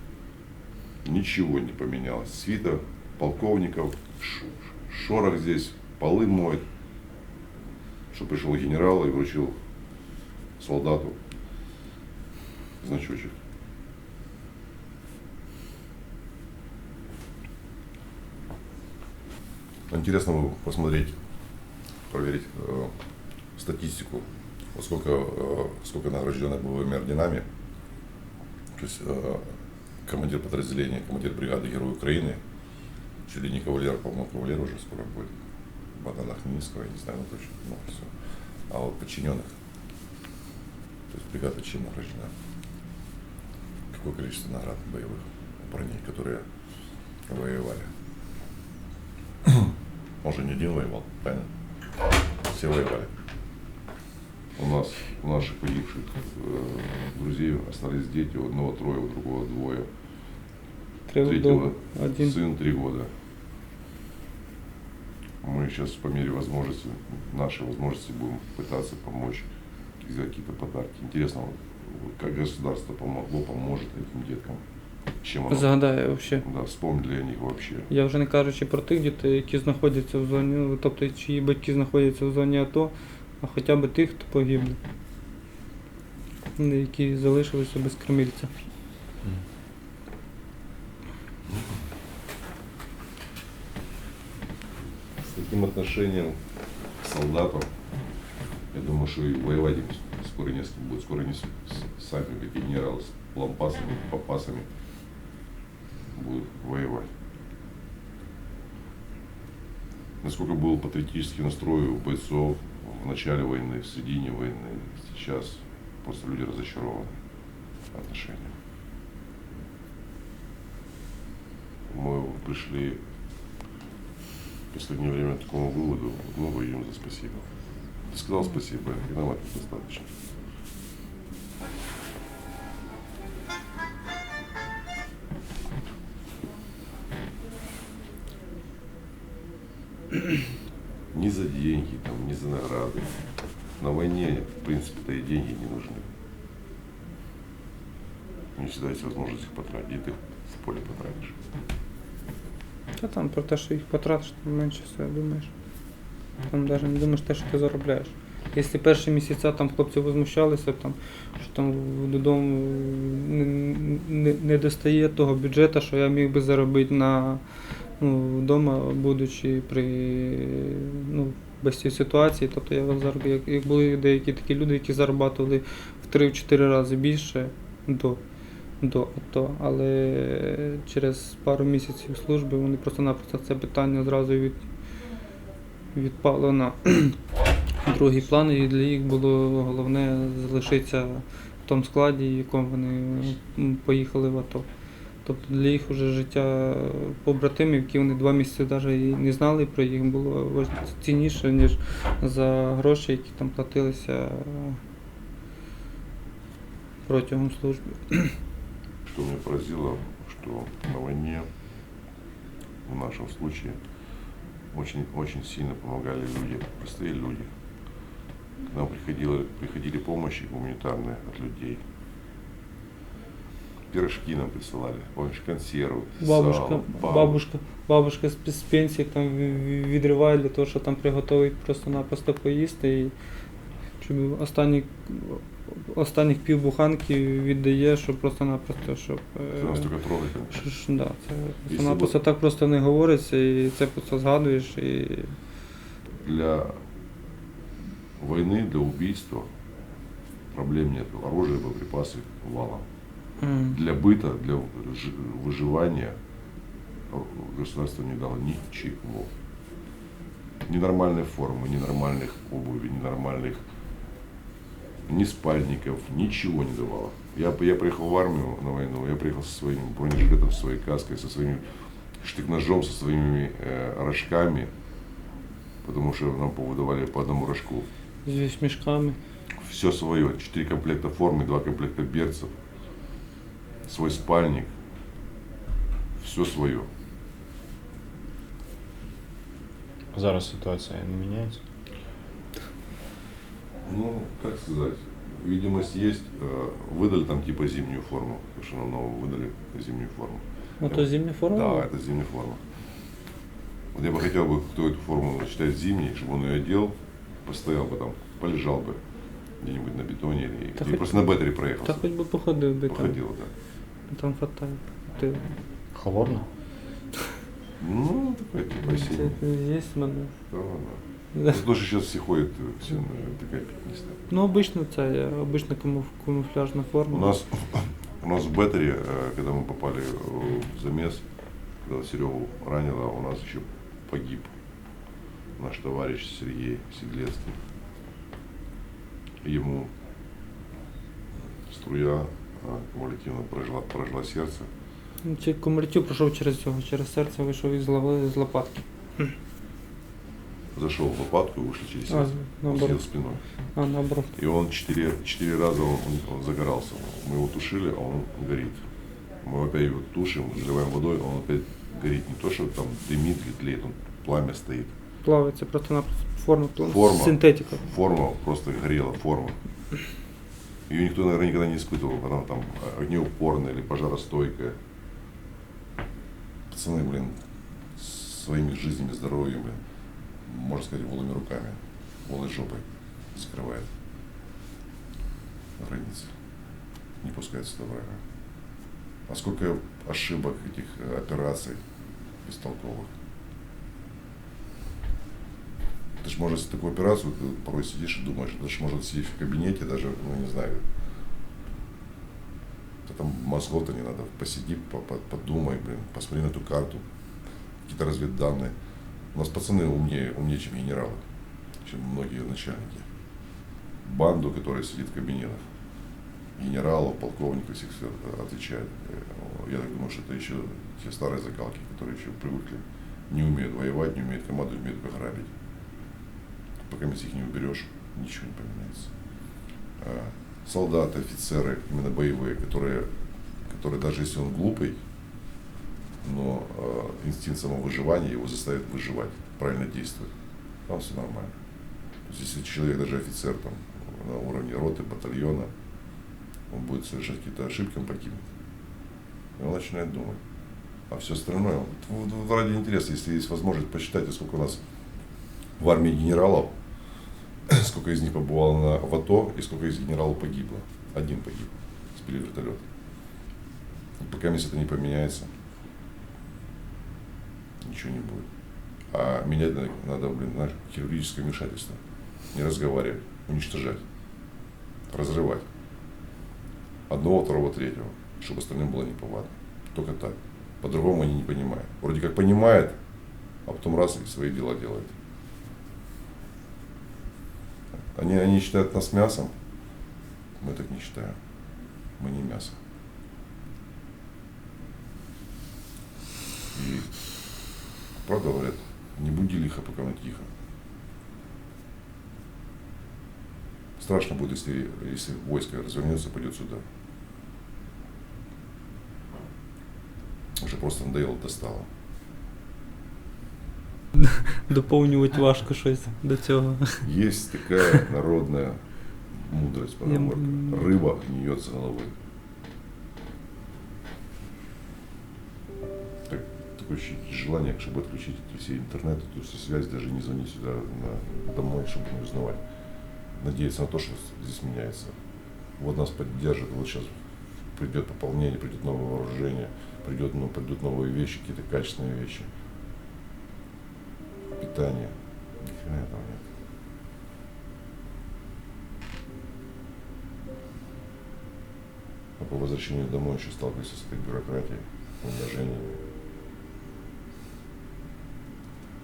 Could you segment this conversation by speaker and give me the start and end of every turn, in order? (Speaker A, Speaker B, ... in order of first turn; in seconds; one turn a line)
Speaker A: 1.0-6.6
Speaker A: 8.1-9.6
Speaker A: 10.6-11.2
Speaker A: 12.8-13.3
Speaker A: 19.9-21.2
Speaker A: 22.1-22.9
Speaker A: 23.6-27.5
Speaker A: 28.8-32.4
Speaker A: 33.3-35.3
Speaker A: 36.0-38.1
Speaker A: 38.7-39.5
Speaker A: 41.1-42.3
Speaker A: 43.9-46.5
Speaker A: 47.3-47.9
Speaker A: 49.4-51.5
Speaker A: 52.5-53.1
Speaker A: 54.6-59.9
Speaker B: 61.1-62.4
Speaker A: 61.2-63.1
Speaker A: 65.4-69.5
Speaker A: 70.0-74.6
Speaker A: 75.2-75.7
Speaker B: 75.5-76.4
Speaker A: 76.4-77.9
Speaker B: 77.9-84.8
Speaker B: 86.6-88.5
Speaker A: 95.2-96.4
Speaker A: 97.0-97.7
Speaker A: 98.7-104.7
Speaker A: 106.2-107.1
Speaker A: 110.2-117.2
Speaker A: 117.9-118.5
Speaker A: 121.9-123.0
Speaker A: 124.7-127.5
Speaker A: 128.1-130.2
Speaker A: 141.1-143.2
Speaker A: 143.8-146.1
Speaker A: 148.6-151.4
Speaker B: 153.0-155.5
Speaker B: 156.5-167.4
Speaker B: 168.0-178.2
Speaker B: 178.8-184.6
Speaker B: 185.9-187.2
Speaker B: 187.8-194.7
Speaker B: 195.2-204.8
Speaker B: 207.1-208.4
Speaker A: 209.1-211.5
Speaker A: 212.8-213.8
Speaker A: 214.7-217.5
Speaker A: 218.7-221.8
Speaker A: 223.9-227.4
Speaker B: 226.2-233.1
Speaker B: 234.0-239.9
Speaker A: 239.6-240.6
Speaker B: 240.5-245.4
Speaker A: 241.7-242.2
Speaker A: 246.2-246.8
Speaker A: 248.2-249.5
Speaker A: 250.5-252.8
Speaker B: 253.4-253.8
Speaker A: 253.7-256.1
Speaker A: 257.1-259.3
Speaker A: 260.7-263.6
Speaker A: 265.1-271.6
Speaker A: 272.2-274.7
Speaker A: 275.8-277.9
Speaker B: 278.2-279.2
Speaker A: 279.6-282.5
Speaker A: 283.9-284.7
Speaker A: 286.2-286.9
Speaker C: 290.1-291.6
Speaker A: 293.9-302.6
Speaker B: 300.8-301.9
Speaker A: 303.9-309.0
Speaker A: 309.6-312.0
Speaker B: 310.8-313.2
Speaker A: 312.9-313.5
Speaker B: 314.1-315.5
Speaker C: 315.9-316.5
Speaker A: 317.8-319.4
Speaker B: 318.9-320.3
Speaker A: 320.5-324.2
Speaker B: 324.3-327.4
Speaker A: 327.1-331.2
Speaker A: 331.8-334.5
Speaker A: 335.6-337.6
Speaker A: 339.4-339.9
Speaker A: 341.6-344.7
Speaker B: 345.2-349.3
Speaker A: 350.8-353.4
Speaker B: 352.1-353.0
Speaker B: 353.8-354.4
Speaker A: 354.4-358.8
Speaker A: 359.4-364.9
Speaker B: 365.2-367.8
Speaker A: 366.8-369.6
Speaker A: 370.9-374.8
Speaker A: 376.7-377.4
Speaker A: 378.0-379.8
Speaker A: 380.5-383.9
Speaker A: 385.8-386.3
Speaker A: 387.2-388.2
Speaker A: 389.3-391.8
Speaker A: 392.4-393.1
Speaker A: 396.2-400.8
Speaker A: 403.1-407.0
Speaker A: 407.9-408.7
Speaker A: 409.3-411.2
Speaker A: 411.8-413.1
Speaker A: 414.0-415.6
Speaker A: 416.6-425.5
Speaker A: 426.9-429.1
Speaker A: 430.0-433.1
Speaker A: 433.7-435.0
Speaker A: 436.2-440.3
Speaker A: 440.9-441.6
Speaker A: 442.3-445.7
Speaker A: 446.7-448.5
Speaker A: 449.6-450.4
Speaker A: 451.1-454.8
Speaker A: 455.8-456.7
Speaker A: 457.7-462.8
Speaker A: 464.2-465.5
Speaker A: 467.8-468.5
Speaker A: 469.1-472.0
Speaker A: 472.5-474.0
Speaker A: 475.1-475.6
Speaker A: 477.1-483.0
Speaker A: 483.6-485.1
Speaker A: 487.9-489.5
Speaker A: 490.6-491.4
Speaker A: 492.2-492.8
Speaker A: 496.7-497.2
Speaker A: 498.2-500.5
Speaker A: 504.0-506.8
Speaker A: 510.6-511.9
Speaker B: 514.2-517.1
Speaker A: 517.0-518.8
Speaker A: 519.3-522.1
Speaker B: 520.1-520.9
Speaker A: 526.3-532.6
Speaker A: 533.4-535.2
Speaker A: 535.8-537.1
Speaker A: 537.8-542.5
Speaker A: 544.6-546.4
Speaker A: 552.4-556.0